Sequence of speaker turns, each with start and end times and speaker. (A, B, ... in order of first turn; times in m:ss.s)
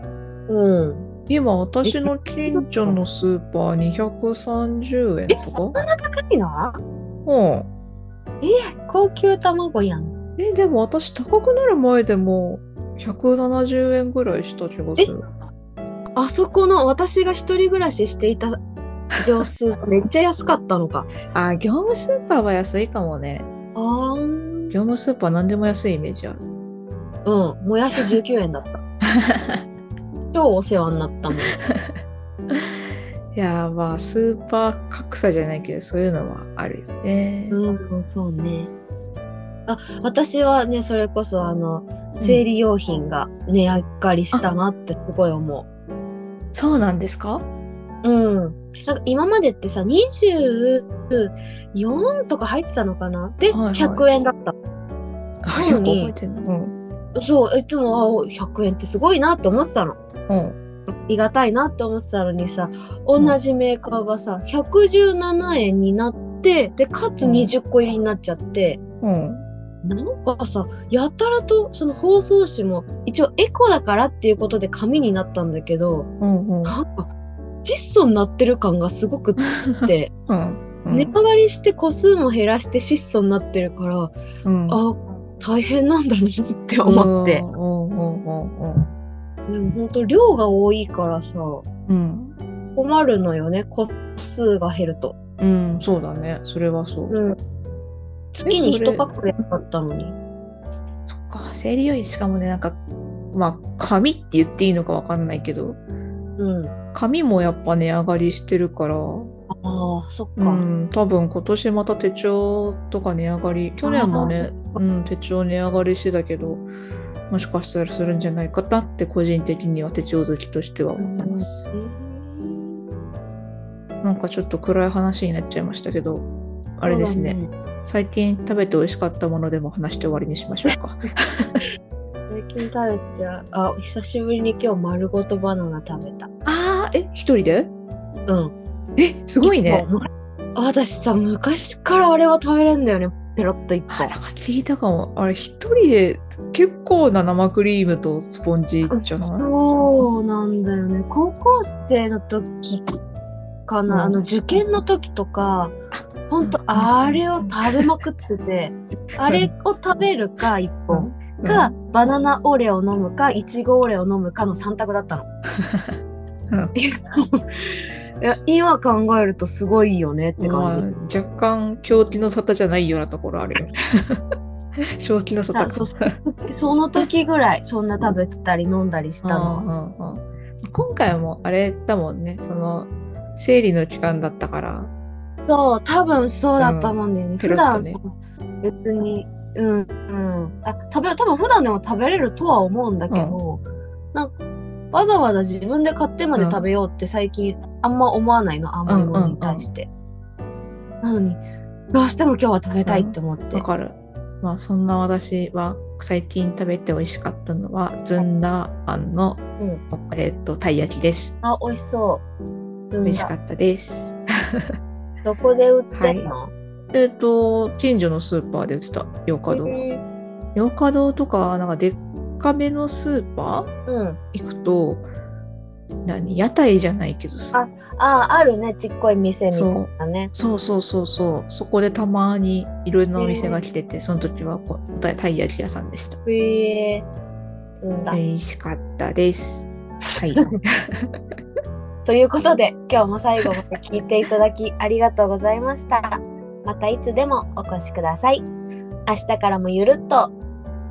0:00.5-0:01.1 A
0:01.3-0:05.8 B
0:01.8-0:03.0 A
0:05.3-0:06.8 A
0:07.3-0:07.7 B
0:08.4-0:10.1 A
0:10.4-0:15.2 B
0:16.2-0:18.6 A
0:19.2-0:21.1 A
0:21.3-0:23.5 B
0:23.8-0:24.8 A
0:24.7-0:26.4 B
0:27.2-0:28.8 A
0:29.1-0:29.6 B
0:30.3-0:31.6 A
0:31.6-0:32.0 B
0:33.3-0:37.6 B
0:37.5-0:38.7 A
0:39.7-0:45.7 A
0:46.5-0:47.4 B
0:48.0-0:54.5 A
0:53.5-0:54.1 B
0:55.4-0:56.8 B
0:55.5-0:56.1 A
0:57.2-1:00.0 A
1:00.3-1:00.6 B
1:01.1-1:08.8 A
1:07.2-1:07.5 B
1:09.0-1:09.4 B
1:09.8-1:16.1 A
1:16.2-1:16.8 B
1:16.6-1:17.1 A
1:17.6-1:20.1 A
1:19.6-1:21.1 B
1:20.9-1:24.1 A
1:24.4-1:24.8 B
1:24.7-1:27.4 A
1:26.8-1:28.9 B
1:29.5-1:31.6 A
1:31.9-1:32.4 B
1:32.8-1:35.2 A
1:35.4-1:37.2 B
1:37.1-1:37.4 A
1:38.3-1:40.2 A
1:38.5-1:39.1 B
1:41.1-1:42.8 B
1:43.3-1:45.8 B
1:46.4-1:46.8 A
1:46.9-1:49.3 B
1:49.5-1:50.6 A
1:50.4-1:56.7 B
1:53.8-1:54.8 A
1:57.3-2:01.7 B
2:01.0-2:03.0 A
2:04.0-2:06.3 B
2:06.8-2:11.6 B
2:06.9-2:07.5 A
2:12.3-2:16.3 A
2:16.4-2:17.7 B
2:18.3-2:18.6 A
2:19.0-2:19.9 B
2:19.4-2:20.0 A
2:20.6-2:24.1 A
2:23.9-2:29.5 B
2:28.9-2:32.9 A
2:33.7-2:35.7 A
2:33.9-2:34.8 B
2:35.9-2:37.9 B
2:36.3-2:45.3 A
2:40.9-2:41.7 B
2:45.6-2:46.0 B
2:46.8-2:47.4 A
2:48.2-2:50.9 A
2:50.4-2:54.2 B
2:55.0-2:56.2 B
2:55.5-2:59.6 A
2:59.2-3:04.9 B
3:05.5-3:08.1 A
3:06.6-3:08.0 B
3:08.6-3:13.6 A
3:13.1-3:13.4 B
3:14.9-3:19.9 A
3:16.4-3:16.6 B
3:18.9-3:19.7 B
3:21.0-3:21.4 A
3:21.9-3:23.6 A
3:22.9-3:31.4 B
3:31.4-3:32.2 A
3:32.9-3:33.3 A
3:33.0-3:34.8 B
3:35.2-3:36.5 A
3:35.9-3:36.3 B
3:36.9-3:39.8 B
3:39.5-3:40.0 A
3:40.6-3:43.7 B
3:43.9-3:44.2 A
3:44.3-3:45.0 B
3:46.0-3:47.6 B
3:47.5-3:50.3 A
3:49.5-3:56.2 B
3:53.2-3:53.6 A
3:56.3-3:57.1 A
3:57.8-3:58.2 A
3:58.1-4:01.2 B
4:02.0-4:08.5 A
4:09.1-4:10.3 A